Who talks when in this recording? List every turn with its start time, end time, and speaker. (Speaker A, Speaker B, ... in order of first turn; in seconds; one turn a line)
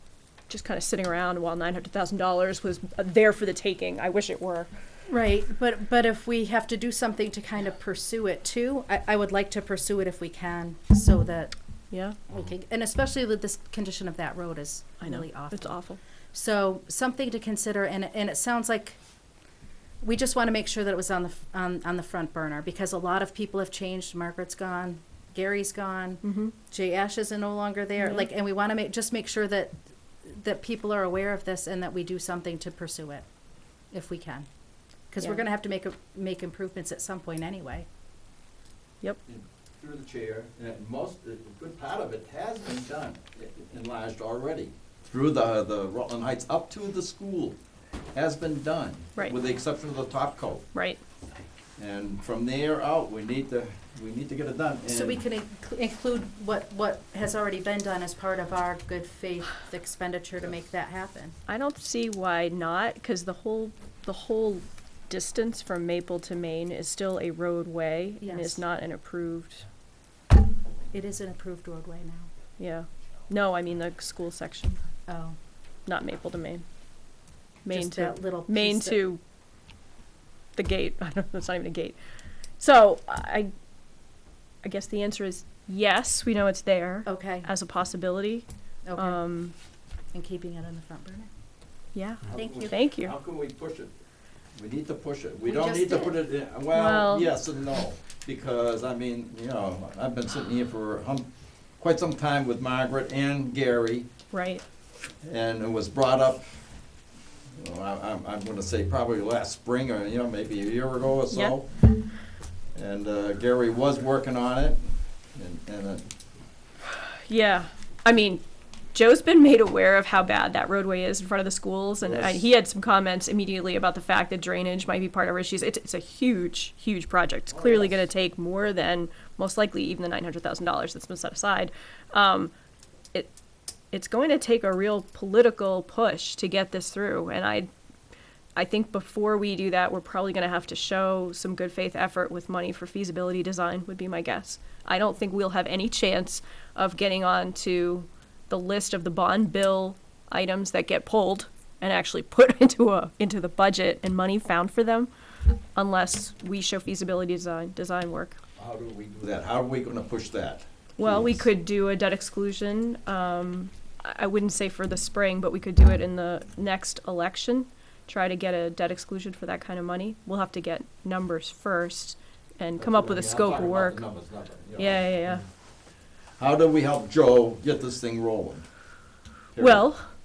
Speaker A: 0.5-4.7
Speaker B: 5.1-11.5
Speaker A: 11.9-12.2
Speaker B: 12.3-15.8
Speaker A: 15.0-16.0
Speaker B: 16.3-19.0
Speaker B: 20.0-33.3
Speaker A: 26.2-26.5
Speaker A: 28.0-28.2
Speaker B: 33.9-34.5
Speaker B: 35.1-37.9
Speaker C: 39.3-47.6
Speaker C: 48.1-50.6
Speaker A: 50.7-51.0
Speaker C: 51.8-55.2
Speaker B: 54.9-61.4
Speaker A: 61.5-69.7
Speaker B: 68.2-68.7
Speaker B: 70.9-72.3
Speaker A: 72.6-74.8
Speaker B: 75.1-75.4
Speaker A: 75.9-76.6
Speaker A: 77.7-79.2
Speaker B: 77.7-79.0
Speaker A: 80.5-82.0
Speaker A: 82.6-83.5
Speaker A: 84.6-88.5
Speaker B: 87.0-87.5
Speaker B: 88.9-89.3
Speaker A: 89.0-89.5
Speaker B: 90.1-91.3
Speaker A: 91.9-93.2
Speaker C: 92.3-93.9
Speaker B: 92.3-92.8
Speaker C: 94.5-104.1
Speaker B: 95.4-96.2
Speaker A: 96.7-97.4
Speaker A: 104.3-104.6
Speaker C: 105.2-106.6
Speaker C: 107.6-111.7
Speaker A: 111.3-111.6
Speaker C: 112.8-114.8
Speaker C: 115.3-116.1
Speaker A: 117.3-132.5
Speaker C: 122.0-122.4
Speaker C: 127.5-128.0
Speaker A: 133.9-137.7
Speaker A: 138.6-155.1
Speaker A: 155.8-158.4
Speaker C: 158.6-161.4
Speaker A: 161.0-174.1
Speaker C: 172.8-175.1
Speaker A: 174.8-175.4
Speaker C: 176.4-178.7
Speaker C: 179.5-179.9
Speaker A: 179.6-180.1